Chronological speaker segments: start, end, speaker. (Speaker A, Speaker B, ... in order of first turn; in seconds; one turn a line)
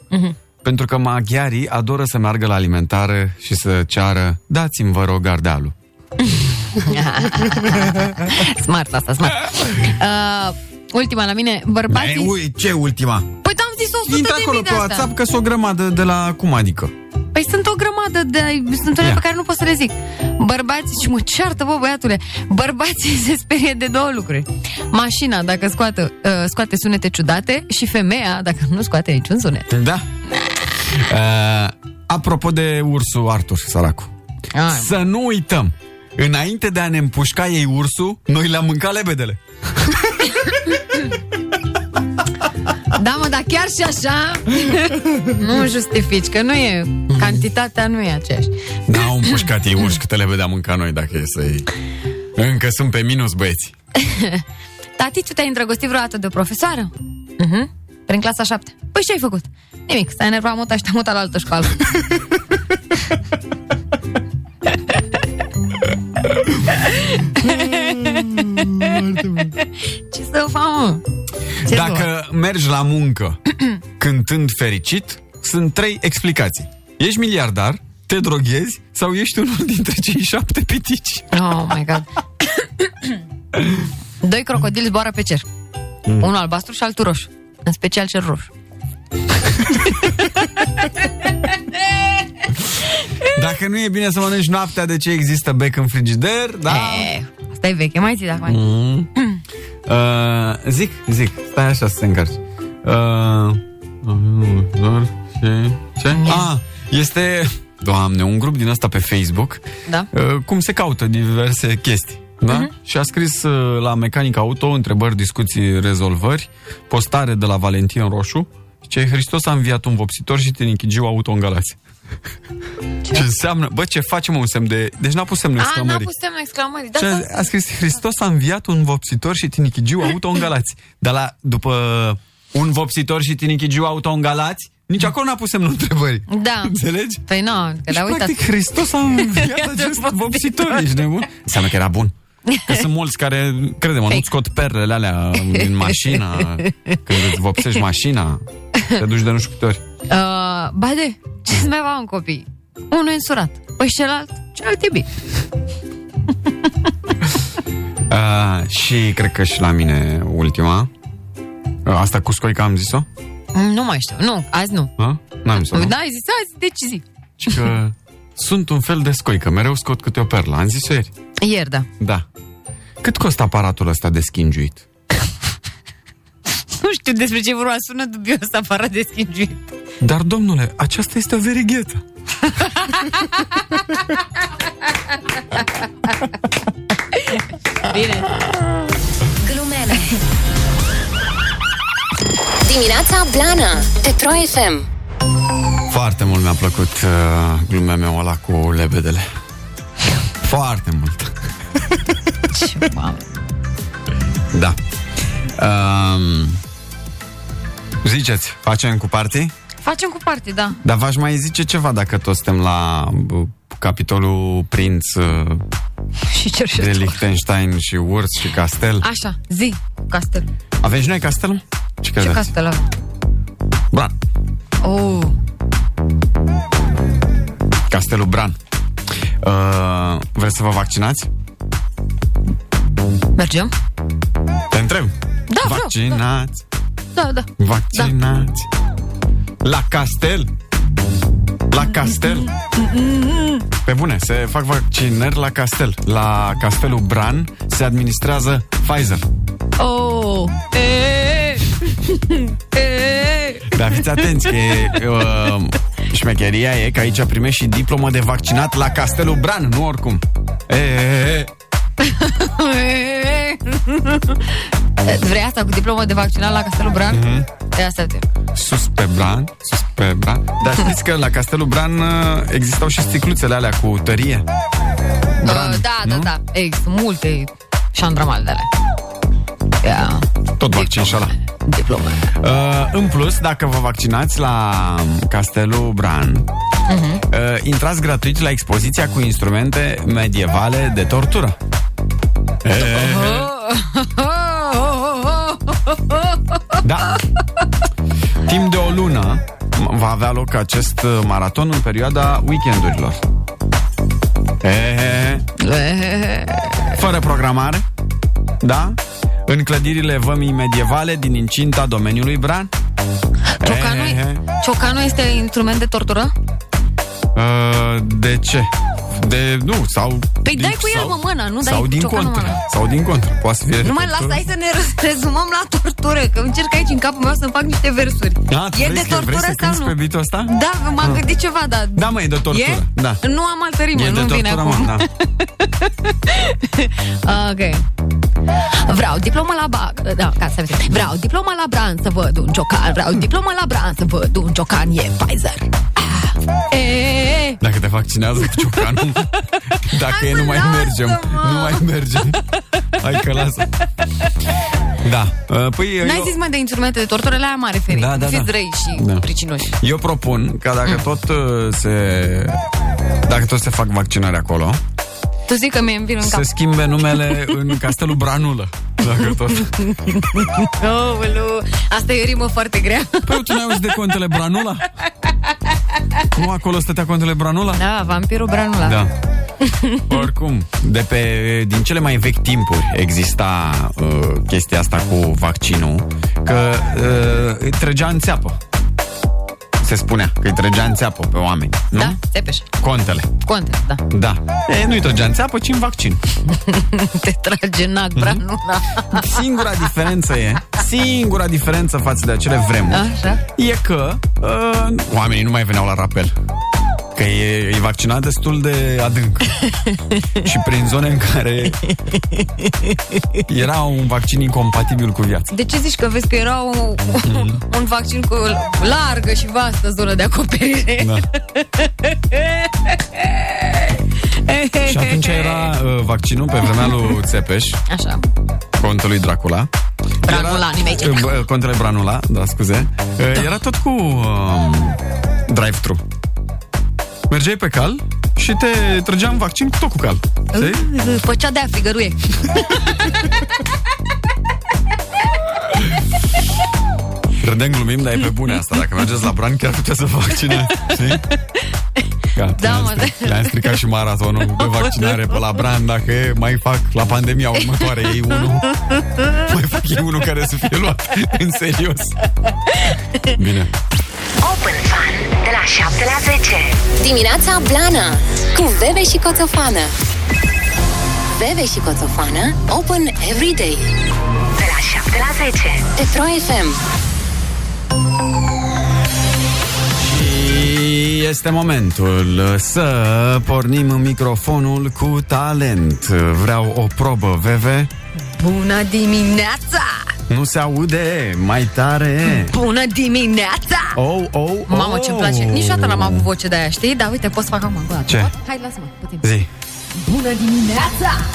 Speaker A: 0.6-5.7
Speaker B: 6.9-12.3
Speaker A: 11.9-13.3
Speaker B: 13.4-15.1
Speaker A: 14.1-16.9
Speaker B: 17.4-29.6
Speaker A: 29.7-30.1
Speaker A: 31.0-34.1
Speaker B: 34.6-34.9
Speaker A: 34.7-40.0
Speaker B: 43.0-44.7
Speaker B: 45.4-48.5
Speaker A: 47.1-47.4
Speaker A: 48.9-51.7
Speaker A: 52.4-53.7
Speaker B: 55.0-56.9
Speaker B: 57.4-61.7
Speaker A: 68.1-69.5
Speaker B: 70.1-71.0
Speaker A: 71.7-73.4
Speaker B: 71.7-72.0
Speaker A: 74.0-81.2
Speaker B: 81.3-82.0
Speaker B: 84.2-85.4
Speaker B: 86.2-88.5
Speaker A: 93.3-97.1
Speaker B: 96.7-98.6
Speaker A: 98.5-99.1
Speaker A: 99.8-121.8
Speaker B: 106.2-106.5
Speaker A: 123.1-126.1
Speaker B: 125.6-127.5
Speaker A: 126.9-137.2
Speaker B: 136.3-136.7
Speaker B: 137.3-138.3
Speaker A: 137.9-142.1
Speaker B: 139.4-140.8
Speaker A: 142.7-148.4
Speaker A: 148.9-149.8
Speaker B: 150.1-155.0
Speaker A: 158.1-160.9
Speaker A: 161.8-163.1
Speaker B: 163.6-164.9
Speaker A: 165.0-165.9
Speaker B: 165.6-167.0
Speaker A: 167.4-171.1
Speaker B: 171.4-171.8
Speaker A: 172.0-172.2
Speaker A: 173.0-174.8
Speaker B: 176.8-179.6
Speaker A: 180.0-182.0
Speaker B: 187.9-188.3
Speaker C: 192.6-194.8
Speaker A: 195.9-199.3
Speaker A: 200.4-201.3
Speaker B: 202.5-203.2
Speaker A: 205.6-206.6
Speaker A: 208.0-209.5
Speaker B: 209.8-210.8
Speaker A: 210.8-215.6
Speaker B: 216.3-217.2
Speaker A: 216.8-219.1
Speaker B: 219.0-220.5
Speaker A: 220.8-222.5
Speaker B: 222.2-222.8
Speaker B: 224.8-225.3
Speaker A: 227.9-228.6
Speaker A: 229.4-231.3
Speaker B: 233.4-233.7
Speaker A: 234.7-236.6
Speaker B: 235.5-236.2
Speaker B: 237.2-238.1
Speaker A: 237.6-238.7
Speaker A: 239.6-240.5
Speaker A: 241.7-242.4
Speaker B: 241.8-243.6
Speaker A: 243.8-249.2
Speaker B: 249.8-251.7
Speaker B: 252.3-253.7
Speaker A: 253.7-261.5
Speaker B: 262.4-264.2
Speaker B: 265.0-267.2
Speaker A: 267.1-267.5
Speaker B: 267.7-268.2
Speaker A: 268.5-274.5
Speaker A: 275.4-276.3
Speaker B: 275.4-278.7
Speaker B: 279.8-280.2
Speaker A: 280.6-281.3
Speaker B: 280.7-282.3
Speaker A: 282.4-286.5
Speaker B: 286.9-287.2
Speaker A: 287.3-291.6
Speaker A: 292.6-293.5
Speaker B: 292.8-296.4
Speaker A: 296.8-297.1
Speaker A: 298.4-303.2
Speaker A: 304.6-305.4
Speaker B: 305.6-307.0
Speaker A: 306.9-307.8
Speaker A: 308.6-312.7
Speaker B: 313.6-316.3
Speaker A: 313.6-314.4
Speaker A: 317.3-324.4
Speaker B: 320.4-322.6
Speaker B: 323.8-329.9
Speaker A: 328.5-331.2
Speaker B: 330.5-335.1
Speaker A: 331.9-333.2
Speaker A: 333.9-335.0
Speaker B: 336.3-337.8
Speaker B: 338.8-347.6
Speaker A: 347.6-349.3
Speaker A: 349.9-352.4
Speaker B: 349.9-351.9
Speaker A: 353.0-353.7
Speaker A: 355.0-356.3
Speaker B: 356.0-359.7
Speaker A: 357.9-359.2
Speaker A: 359.8-362.6
Speaker A: 363.2-364.8
Speaker B: 365.5-366.5
Speaker A: 366.2-369.7
Speaker B: 367.2-367.7
Speaker B: 369.3-373.6
Speaker A: 373.2-374.9
Speaker A: 376.4-377.8
Speaker B: 377.7-379.0
Speaker A: 378.8-379.1
Speaker B: 379.7-380.2
Speaker A: 380.1-388.6
Speaker A: 389.8-392.2
Speaker B: 391.9-392.6
Speaker A: 392.8-393.3
Speaker B: 393.4-394.0
Speaker A: 394.1-396.2
Speaker B: 396.7-399.2
Speaker A: 398.1-398.4
Speaker A: 399.1-406.3
Speaker B: 402.9-403.4
Speaker A: 407.1-409.4
Speaker A: 410.4-411.8
Speaker A: 413.5-415.5
Speaker B: 415.5-422.9
Speaker A: 417.2-417.6
Speaker B: 424.4-425.7
Speaker A: 424.9-427.8
Speaker B: 427.9-428.2
Speaker A: 428.8-429.7
Speaker B: 430.2-431.4
Speaker A: 430.3-436.0
Speaker A: 437.3-440.9
Speaker B: 440.5-443.2
Speaker A: 447.4-451.2
Speaker A: 452.4-458.7
Speaker B: 452.6-453.8
Speaker B: 454.5-455.6
Speaker B: 457.7-458.4
Speaker A: 459.5-462.1
Speaker A: 463.4-463.7
Speaker C: 464.4-469.9
Speaker C: 471.4-473.9
Speaker C: 474.6-476.8
Speaker A: 480.0-487.9
Speaker B: 488.4-490.0
Speaker A: 490.3-492.5
Speaker B: 492.2-494.0
Speaker A: 493.9-496.3
Speaker B: 494.7-499.3
Speaker A: 499.2-499.5
Speaker B: 499.9-501.2